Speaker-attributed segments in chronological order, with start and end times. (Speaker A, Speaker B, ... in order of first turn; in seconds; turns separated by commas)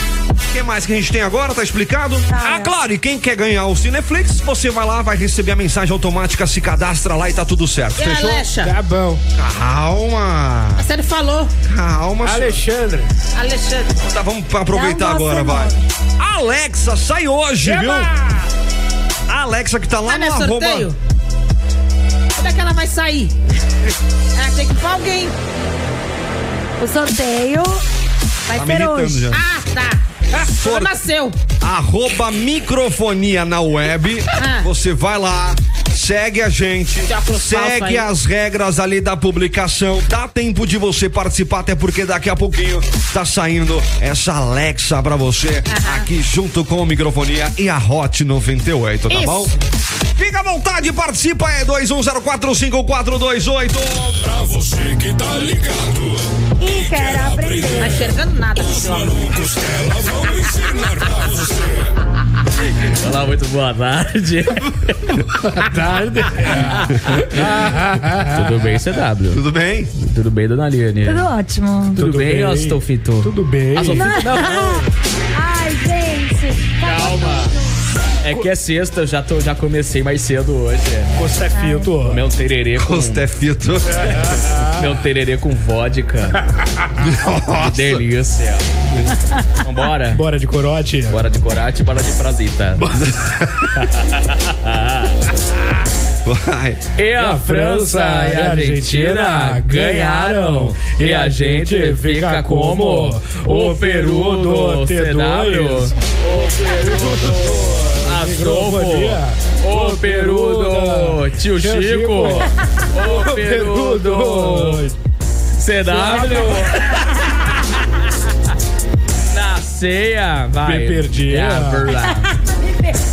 Speaker A: 0.5-8.5, Speaker B: 2.3-2.7, Speaker C: 8.0-8.7, Speaker D: 8.6-9.2, Speaker A: 9.3-10.8, Speaker C: 10.8-11.5, Speaker A: 11.6-12.6, Speaker D: 12.2-13.1, Speaker C: 13.3-13.9, Speaker A: 14.0-18.1, Speaker B: 14.7-15.8, Speaker D: 17.6-18.4, Speaker A: 19.3-20.9, Speaker C: 20.1-21.0, Speaker C: 22.4-23.3, Speaker C: 24.4-25.3, Speaker B: 26.8-27.8, Speaker B: 28.5-29.2, Speaker A: 28.5-29.4, Speaker C: 29.3-31.4, Speaker A: 30.6-31.0, Speaker A: 31.6-49.5, Speaker C: 34.4-34.7, Speaker C: 37.1-38.0, Speaker C: 45.7-46.0, Speaker C: 49.1-49.5, Speaker A: 50.1-54.2, Speaker E: 54.2-57.9, Speaker B: 56.6-58.0, Speaker C: 57.8-59.2, Speaker E: 58.6-61.8, Speaker F: 62.9-64.7, Speaker D: 65.5-68.6, Speaker F: 66.6-67.4, Speaker F: 68.3-69.4, Speaker A: 69.3-69.9, Speaker F: 70.0-71.3, Speaker B: 71.0-72.0, Speaker D: 72.0-74.5, Speaker F: 72.0-74.9, Speaker B: 73.9-77.6, Speaker F: 76.8-77.5, Speaker F: 78.2-81.1, Speaker D: 81.2-82.2, Speaker B: 81.5-81.9, Speaker F: 82.0-83.2, Speaker A: 82.8-84.1, Speaker D: 83.9-84.9, Speaker F: 84.8-86.4, Speaker A: 87.0-88.0, Speaker F: 87.6-88.6, Speaker F: 89.6-90.2, Speaker D: 90.1-91.2, Speaker F: 91.1-92.8, Speaker A: 92.8-93.7, Speaker F: 94.7-95.1, Speaker A: 96.2-96.8, Speaker F: 97.0-114.8, Speaker D: 97.2-105.9, Speaker D: 106.4-114.9, Speaker F: 115.6-116.9, Speaker D: 115.8-116.8, Speaker F: 119.3-122.3, Speaker D: 120.6-121.9, Speaker B: 122.5-122.9